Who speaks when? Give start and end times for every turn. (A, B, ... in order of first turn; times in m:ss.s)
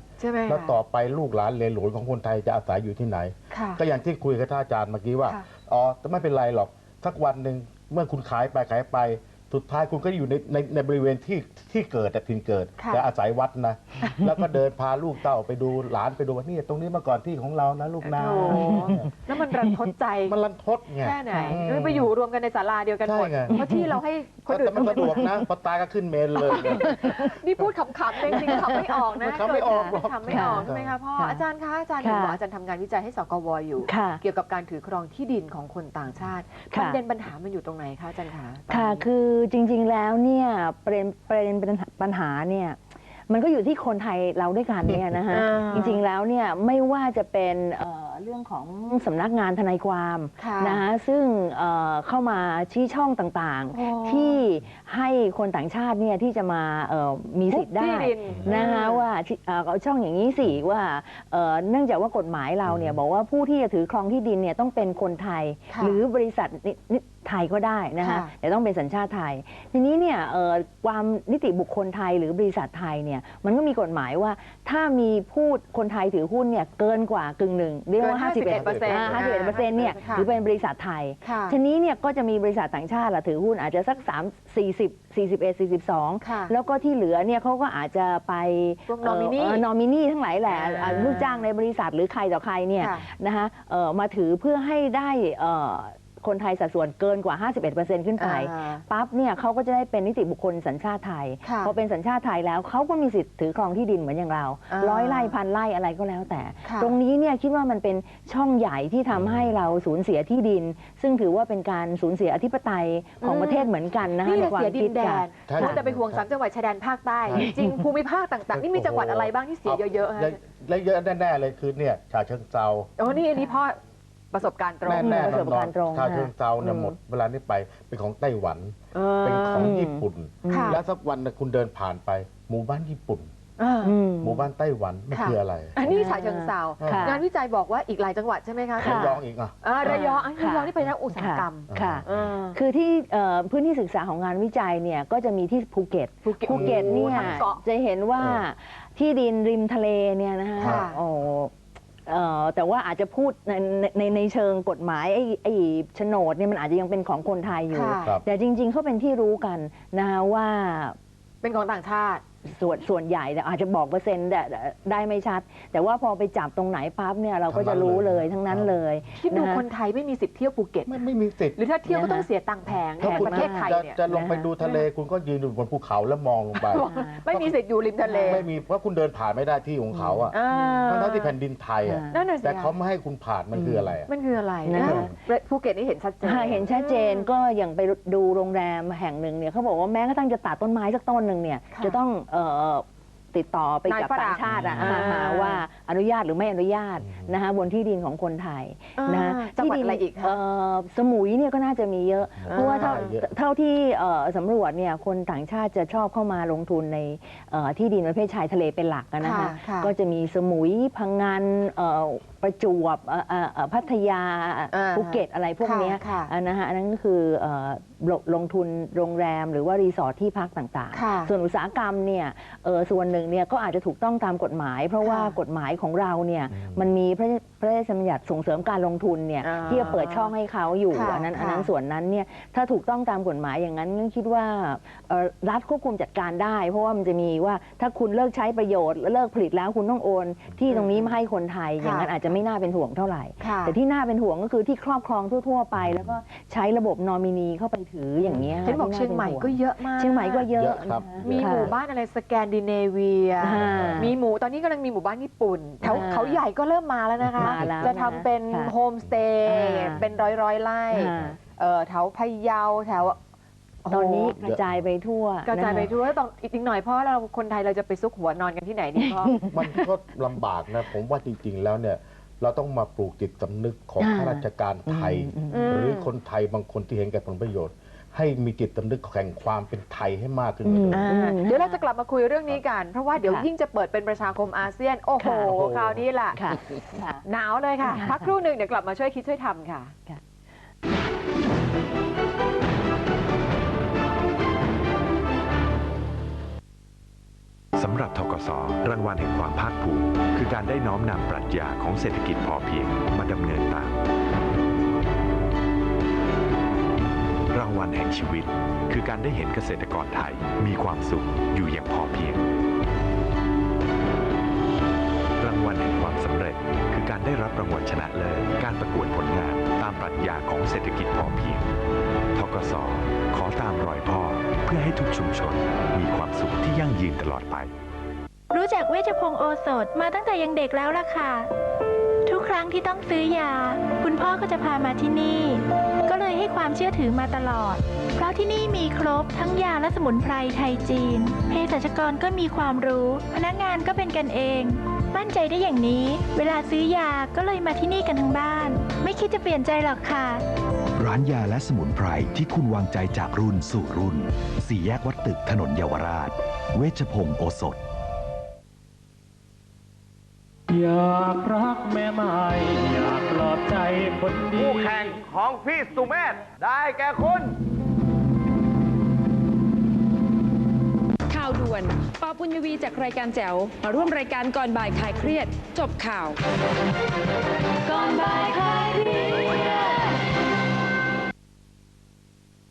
0:00.2-0:00.7 A
0:00.5-0:19.1 B
0:03.5-0:03.8 A
0:12.8-0:13.1 A
0:18.0-0:20.4 A
0:18.4-0:18.9 C
0:20.3-0:22.1 B
0:21.0-0:25.3 A
0:23.0-0:23.6 B
0:23.5-0:23.9 C
0:24.5-0:27.3 B
0:24.7-0:25.5 C
0:26.4-0:27.3 C
0:26.4-0:39.0 A
0:28.3-0:29.0 C
0:28.3-0:31.0 B
0:29.7-0:31.4 C
0:32.0-0:32.4 C
0:33.8-0:34.2 C
0:36.7-0:37.0 C
0:38.7-1:55.8 C
0:45.3-0:46.0 A
0:50.4-0:50.8 A
0:53.7-0:54.4 A
0:57.5-0:59.0 A
1:02.7-1:03.0 B
1:05.7-1:06.0 A
1:08.0-1:08.3 A
1:18.0-1:20.3 A
1:18.5-1:20.5 B
1:21.2-1:21.6 A
1:26.2-1:26.5 A
1:28.9-1:29.6 A
1:30.5-1:31.4 A
1:32.8-1:33.1 A
1:38.2-1:38.8 A
1:41.4-1:41.7 A
1:44.7-1:45.4 A
1:46.6-1:46.9 A
1:49.1-1:49.5 B
1:53.2-1:53.7 A
1:54.2-2:00.4 A
1:55.5-1:56.2 B
1:57.3-1:57.6 B
1:57.4-1:57.7 C
1:58.5-2:02.9 B
2:03.0-2:03.8 A
2:04.3-2:05.5 A
2:04.8-2:13.3 B
2:04.9-2:07.0 C
2:08.9-2:09.7 A
2:09.5-2:10.8 C
2:10.5-2:10.8 A
2:13.6-2:14.0 A
2:13.8-2:14.5 C
2:14.2-2:16.1 B
2:15.1-2:22.6 A
2:15.9-2:17.2 C
2:16.8-2:17.2 B
2:18.8-2:20.2 B
2:18.8-2:19.2 C
2:19.8-2:41.0 C
2:21.7-2:22.3 B
2:26.2-2:27.6 A
2:26.5-2:27.4 B
2:28.2-2:28.4 B
2:30.6-2:30.9 B
2:30.6-2:31.0 A
2:37.7-2:38.1 A
2:41.4-2:42.2 A
2:42.4-2:49.6 C
2:47.5-2:48.7 B
2:49.2-2:54.0 A
2:50.9-2:52.1 B
2:51.9-2:52.2 C
2:53.0-2:57.6 B
2:53.0-2:54.5 C
2:56.6-2:58.5 A
2:56.7-2:57.2 C
2:58.0-2:58.5 C
2:58.2-3:00.4 B
2:59.9-3:00.9 C
3:00.3-3:01.4 A
3:00.9-3:04.1 B
3:01.8-3:02.2 C
3:02.1-3:02.8 A
3:03.5-3:04.0 C
3:04.1-3:07.3 A
3:04.7-3:05.1 C
3:04.8-3:05.1 B
3:06.2-4:11.7 C
3:11.7-3:12.0 A
3:13.9-3:15.6 A
3:14.5-3:15.3 B
3:19.0-3:20.4 A
3:22.4-3:23.2 B
3:22.5-3:23.1 A
3:29.2-3:29.9 A
3:34.7-3:36.3 A
3:40.9-3:41.3 A
3:45.0-3:45.4 A
3:46.5-3:46.8 B
3:49.4-3:50.3 A
3:49.6-3:50.0 B
3:50.9-3:51.7 A
4:00.7-4:01.1 A
4:01.8-4:02.1 A
4:03.4-4:03.8 A
4:05.8-4:06.1 B
4:08.3-4:08.7 B
4:08.6-4:10.4 A
4:10.5-4:11.8 B
4:11.2-4:23.2 A
4:13.4-4:14.2 C
4:13.4-4:14.1 B
4:15.8-4:16.1 B
4:15.8-4:16.4 C
4:17.2-4:18.0 B
4:17.4-4:18.8 C
4:19.4-4:20.0 C
4:19.9-4:20.2 B
4:20.9-4:21.4 C
4:21.1-4:21.4 B
4:23.8-4:24.4 A
4:23.9-4:25.9 C
4:25.5-4:29.4 A
4:29.0-4:29.8 C
4:29.4-4:41.0 B
4:34.0-4:35.8 C
4:35.5-4:36.1 A
4:40.6-4:41.8 C
4:40.9-4:46.6 A
4:45.2-4:45.5 C
4:45.5-4:46.0 B
4:46.3-4:47.2 C
4:47.2-4:49.9 A
4:47.8-4:48.3 C
4:57.8-5:04.0 D
5:07.5-5:12.5 D
5:15.4-5:21.7 D
5:22.4-5:27.7 D
5:28.5-5:31.5 E
5:32.2-5:50.4 E
5:51.0-5:57.8 F
6:00.7-6:05.2 G
6:04.6-6:07.6 H
6:11.3-6:16.4 I